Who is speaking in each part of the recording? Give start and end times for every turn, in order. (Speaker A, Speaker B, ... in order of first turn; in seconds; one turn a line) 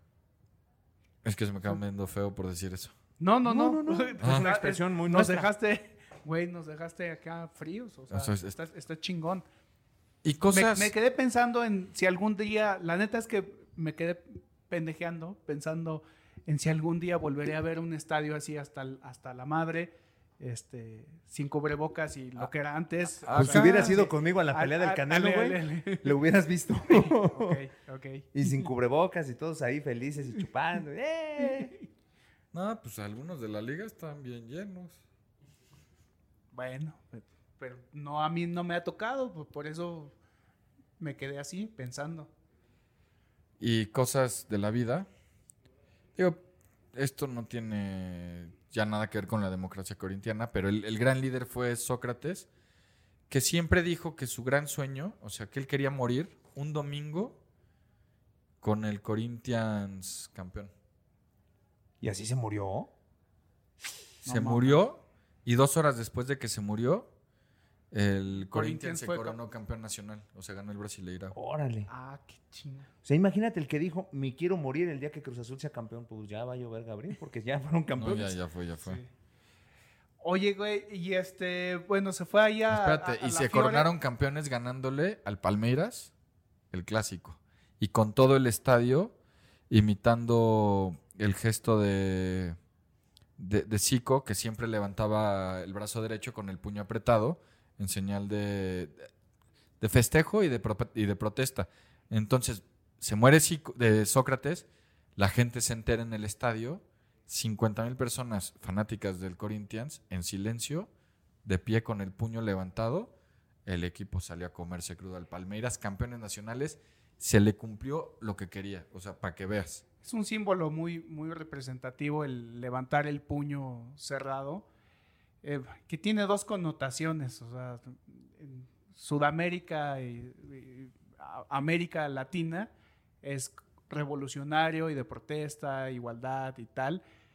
Speaker A: 1.2-2.9
Speaker B: 3.2-9.4
Speaker C: 3.4-5.5
Speaker A: 4.2-4.5
Speaker A: 8.1-8.6
Speaker A: 10.2-10.9
Speaker B: 10.5-26.2
Speaker A: 23.2-24.1
Speaker C: 23.3-27.6
Speaker B: 26.9-28.3
Speaker C: 28.3-31.8
Speaker A: 32.5-35.0
Speaker B: 36.5-40.1
Speaker B: 41.0-42.3
Speaker A: 43.6-45.1
Speaker A: 46.1-46.4
Speaker A: 46.9-52.5
Speaker A: 53.3-57.4
Speaker A: 58.6-60.7
Speaker C: 62.0-62.9
Speaker B: 64.2-64.8
Speaker A: 64.2-67.1
Speaker A: 67.9-71.3
Speaker B: 68.5-69.4
Speaker C: 71.3-71.9
Speaker B: 71.9-72.9
Speaker C: 73.0-78.4
Speaker A: 78.0-79.0
Speaker B: 80.2-83.9
Speaker A: 82.7-86.1
Speaker A: 86.7-89.1
Speaker A: 89.7-92.6
Speaker A: 93.4-99.1
Speaker A: 99.8-110.9
Speaker A: 111.4-113.1
Speaker A: 113.7-119.8
Speaker B: 120.0-124.7
Speaker B: 125.4-132.7
Speaker B: 133.2-137.0